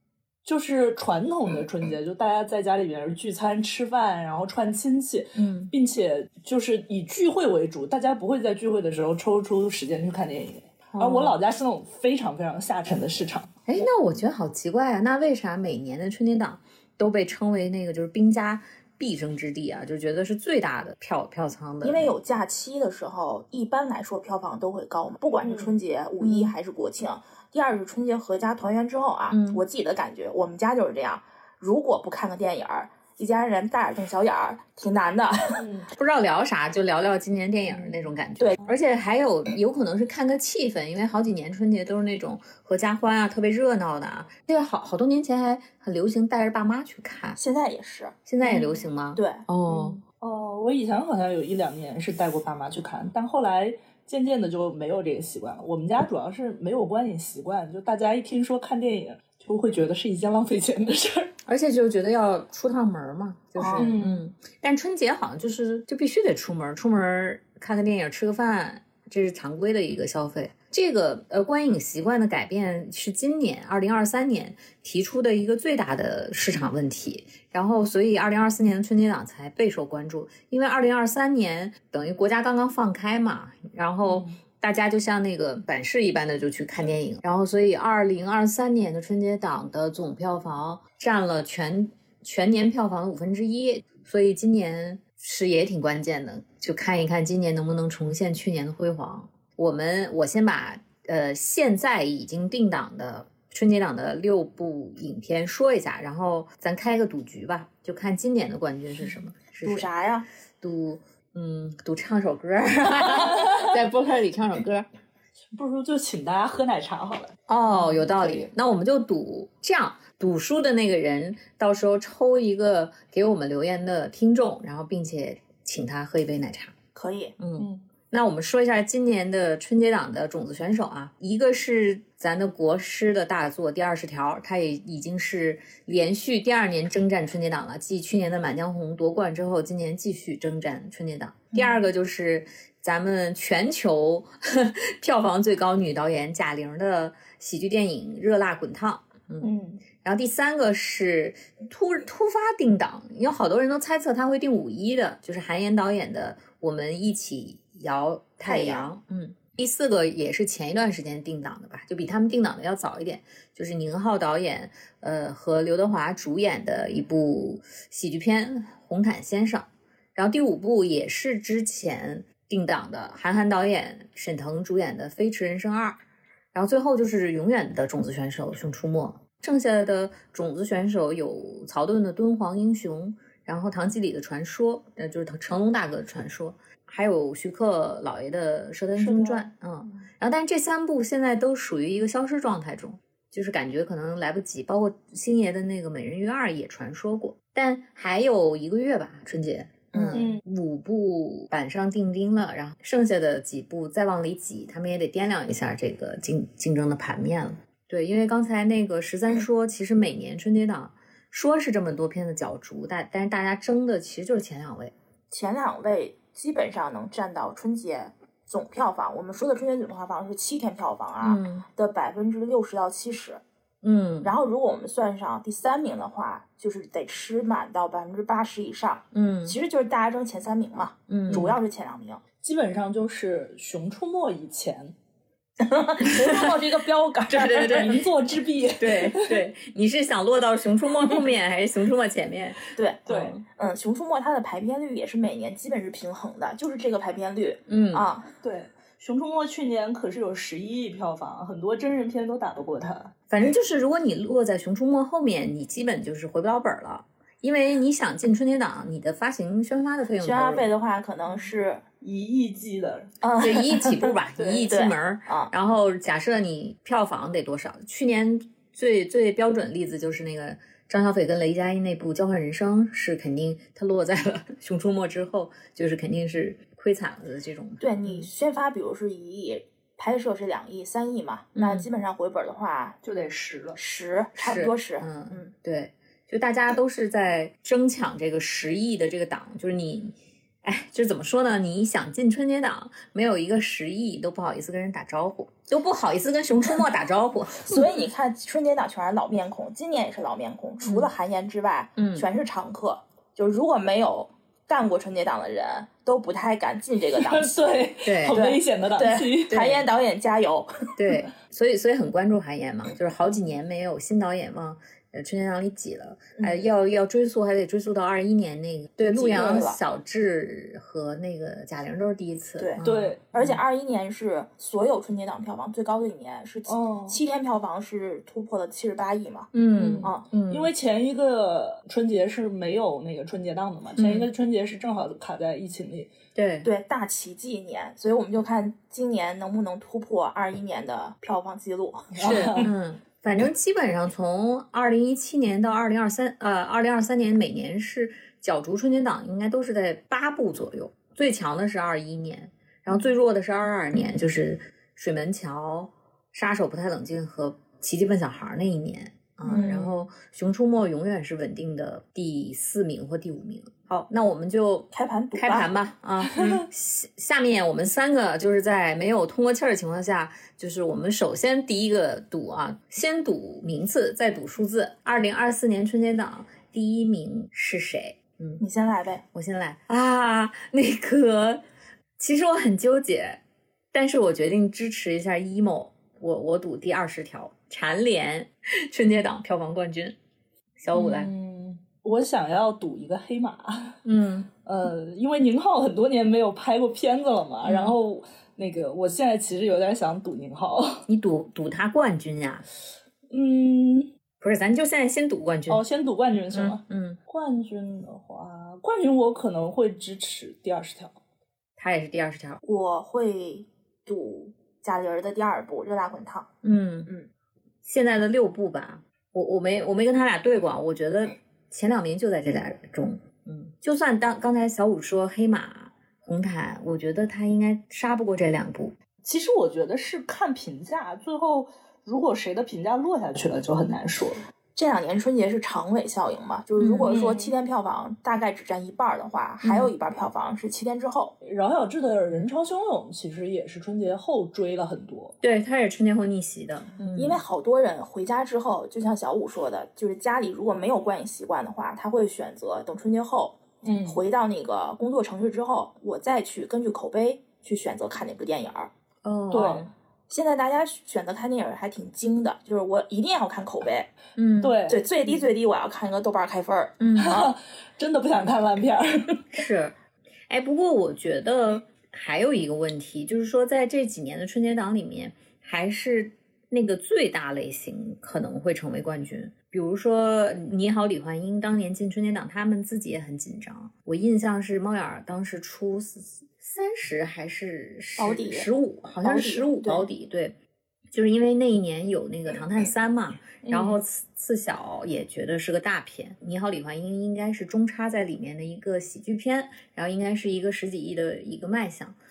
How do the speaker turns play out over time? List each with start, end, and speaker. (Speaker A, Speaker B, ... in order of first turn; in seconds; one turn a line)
Speaker A: 0.4-13.6
Speaker B: 5.3-5.7
Speaker B: 10.9-11.4
Speaker B: 13.7-22.1
Speaker C: 21.8-35.6
Speaker A: 25.4-25.7
Speaker B: 26.2-26.5
Speaker B: 29.3-29.6
Speaker A: 35.6-35.9
Speaker B: 36.0-47.4
Speaker C: 47.3-48.6
Speaker B: 48.2-50.0
Speaker C: 49.1-49.5
Speaker A: 49.7-61.3
Speaker B: 61.5-109.9
Speaker A: 63.6-64.2
Speaker C: 63.6-63.9
Speaker A: 84.0-84.4
Speaker C: 109.6-110.3
Speaker B: 110.6-114.8
Speaker A: 113.1-113.7
Speaker A: 115.5-118.5
Speaker B: 117.5-126.7
Speaker C: 126.9-127.3
Speaker B: 127.4-176.0
Speaker A: 127.5-127.8
Speaker A: 149.4-149.8
Speaker C: 158.4-158.9
Speaker B: 176.5-214.9
Speaker A: 189.0-189.5
Speaker C: 199.9-200.3
Speaker A: 200.1-200.4
Speaker C: 215.3-223.4
Speaker B: 221.2-221.7
Speaker B: 223.8-224.3
Speaker C: 224.2-232.2
Speaker B: 229.1-229.6
Speaker B: 231.1-231.6
Speaker A: 232.4-234.9
Speaker C: 235.6-238.0
Speaker B: 236.0-236.6
Speaker B: 237.3-238.0
Speaker A: 237.7-239.4
Speaker B: 238.8-243.4
Speaker C: 242.7-248.3
Speaker A: 243.1-243.4
Speaker B: 247.7-248.1
Speaker A: 248.4-253.1
Speaker B: 253.3-260.7
Speaker C: 260.2-261.8
Speaker A: 262.0-263.1
Speaker C: 263.2-265.5
Speaker B: 263.4-278.3
Speaker A: 264.3-264.6
Speaker C: 277.8-283.0
Speaker B: 281.6-281.9
Speaker A: 283.0-283.8
Speaker C: 283.8-285.1
Speaker B: 284.4-297.9
Speaker C: 297.6-310.7
Speaker B: 300.8-301.1
Speaker B: 302.0-302.3
Speaker A: 307.1-309.7
Speaker B: 308.0-308.4
Speaker B: 309.5-309.8
Speaker B: 311.0-323.1
Speaker C: 319.0-319.8
Speaker C: 322.6-330.3
Speaker A: 322.8-323.6
Speaker A: 326.7-327.2
Speaker B: 329.5-330.7
Speaker A: 329.8-336.1
Speaker B: 334.0-334.3
Speaker B: 336.3-336.7
Speaker C: 336.6-342.3
Speaker A: 342.1-342.7
Speaker B: 342.2-378.6
Speaker C: 359.5-359.9
Speaker A: 359.5-359.8
Speaker C: 364.9-365.7
Speaker A: 366.4-366.6
Speaker C: 378.6-379.2
Speaker B: 379.3-381.6
Speaker B: 382.2-383.4
Speaker B: 383.9-390.1
Speaker B: 390.8-391.3
Speaker A: 390.9-394.0
Speaker B: 394.0-394.5
Speaker A: 394.6-401.1
Speaker B: 397.6-397.9
Speaker B: 401.1-402.6
Speaker A: 403.3-404.1
Speaker B: 404.4-405.8
Speaker A: 405.7-411.2
Speaker B: 406.5-407.2
Speaker B: 411.8-412.6
Speaker C: 412.6-416.5
Speaker B: 416.6-417.1
Speaker B: 417.8-428.9
Speaker A: 429.2-434.4
Speaker C: 434.8-441.3
Speaker B: 436.8-437.5
Speaker A: 437.1-437.4
Speaker B: 439.6-439.9
Speaker A: 441.4-445.3
Speaker B: 445.4-447.4
Speaker C: 447.1-458.9
Speaker A: 453.8-454.2
Speaker B: 459.2-459.9
Speaker A: 459.5-459.9
Speaker C: 460.3-464.1
Speaker B: 464.4-464.8
Speaker A: 464.6-465.0
Speaker C: 464.9-467.5
Speaker B: 467.0-467.4
Speaker A: 467.1-469.4
Speaker B: 469.5-469.9
Speaker B: 470.5-490.5
Speaker C: 488.2-488.7
Speaker C: 489.2-490.1
Speaker B: 491.1-502.1
Speaker A: 493.6-493.9